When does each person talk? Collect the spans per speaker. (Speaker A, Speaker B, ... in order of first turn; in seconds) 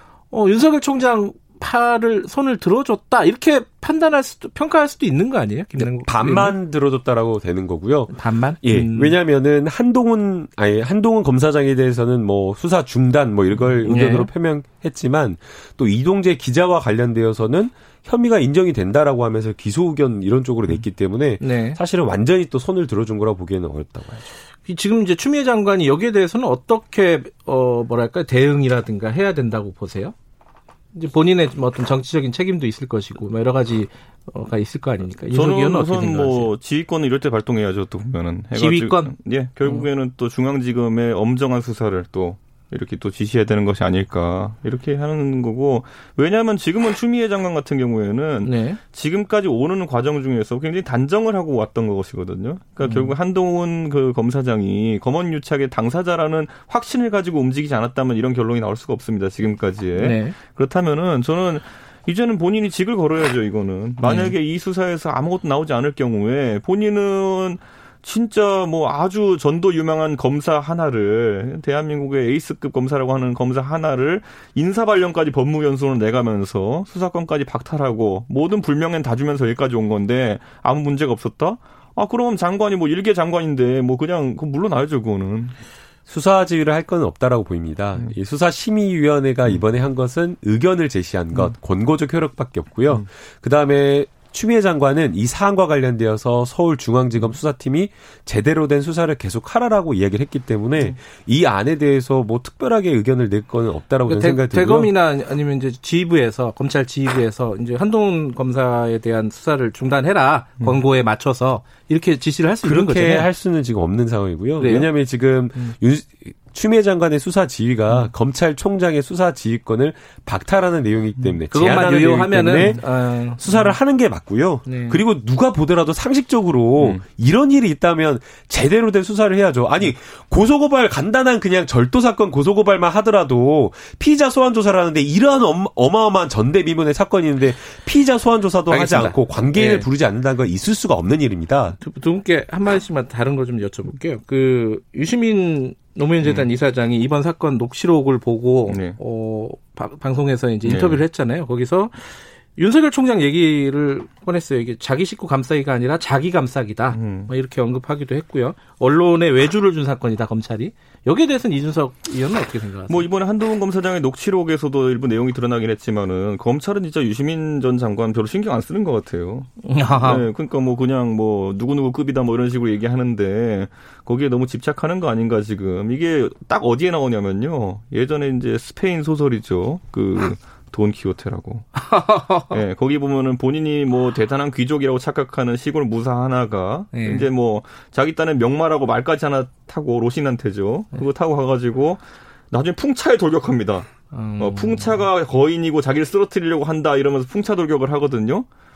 Speaker A: 0.3-6.5, 8.1-9.2, 13.8-14.3, 21.4-21.8, 24.7-30.1, 30.9-36.5, 38.5-39.9, 48.4-48.8, 52.8-53.1, 60.0-60.4, 64.0-64.3, 104.1-113.3, 114.6-114.9, 121.5-123.4, 124.7-125.0, 138.7-139.9, 141.8-163.1, 169.6-170.3, 181.8-182.6, 186.9-187.3, 194.1-194.9
Speaker B: 5.8-24.3, 86.1-104.9, 112.6-122.8, 123.4-141.8
Speaker C: 35.3-85.5, 110.6-110.8, 126.8-127.0, 146.2-146.5, 148.7-149.0, 150.7-151.0, 156.9-157.3, 162.9-181.7, 182.5-198.5